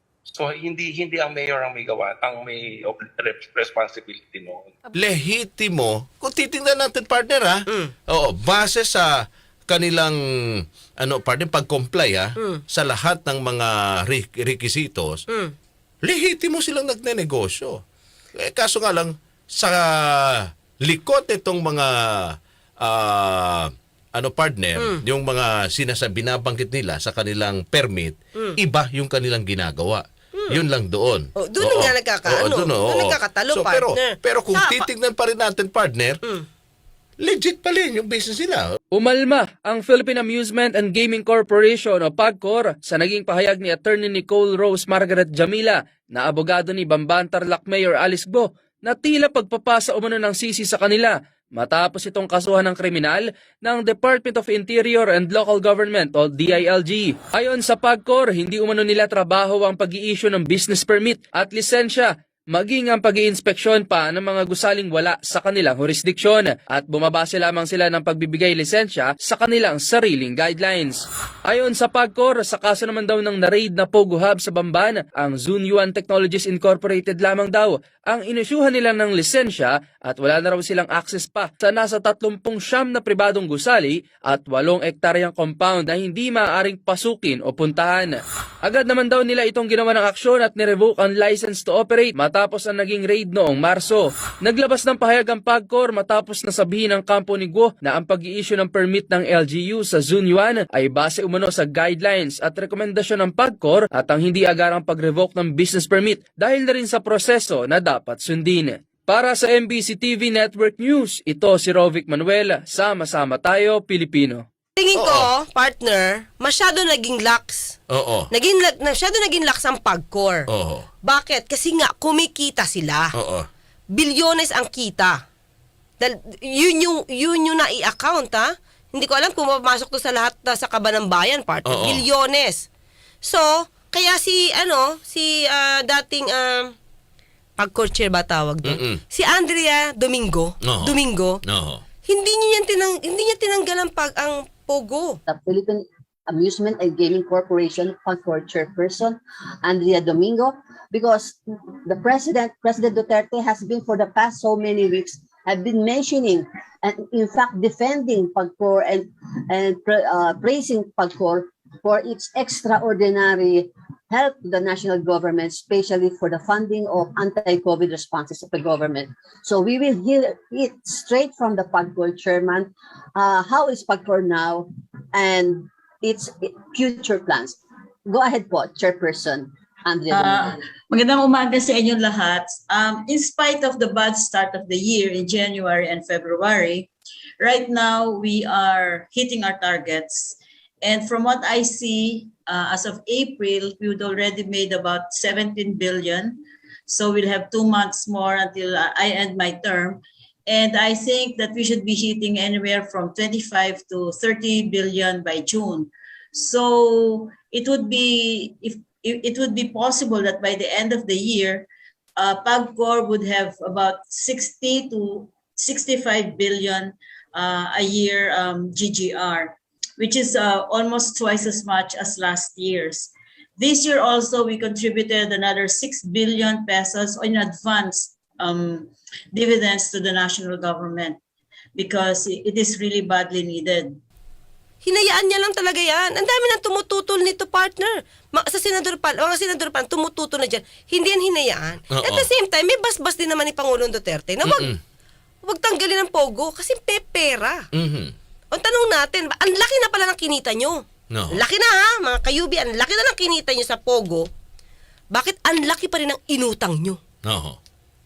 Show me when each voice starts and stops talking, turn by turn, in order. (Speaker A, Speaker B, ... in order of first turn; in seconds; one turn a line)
Speaker A: 0.3-4.8
Speaker B: 4.9-15.2
Speaker C: 7.7-7.9
Speaker C: 12.4-12.6
Speaker C: 15.3-15.6
Speaker B: 16.0-17.8
Speaker B: 18.4-36.2
Speaker C: 24.8-25.0
Speaker C: 30.4-30.6
Speaker C: 31.4-34.9
Speaker B: 37.2-38.8
Speaker D: 39.0-114.4
Speaker C: 114.8-117.8
Speaker B: 115.0-115.3
Speaker B: 117.9-118.3
Speaker C: 118.3-120.5
Speaker B: 120.5-120.9
Speaker C: 121.0-123.1
Speaker B: 123.1-123.5
Speaker C: 123.9-125.2
Speaker C: 126.0-132.7
Speaker B: 131.7-132.1
Speaker C: 133.2-136.7
Speaker C: 137.6-141.4
Speaker B: 138.7-139.0
Speaker B: 140.6-141.8
Speaker C: 142.1-145.2
Speaker E: 145.3-180.6
Speaker F: 180.1-231.2
Speaker F: 231.8-234.0
Speaker C: 234.8-244.7
Speaker B: 241.9-242.3
Speaker B: 244.4-244.8
Speaker C: 245.4-247.7
Speaker B: 247.7-248.2
Speaker C: 248.5-254.3
Speaker B: 251.1-251.4
Speaker C: 255.1-257.0
Speaker B: 257.2-257.6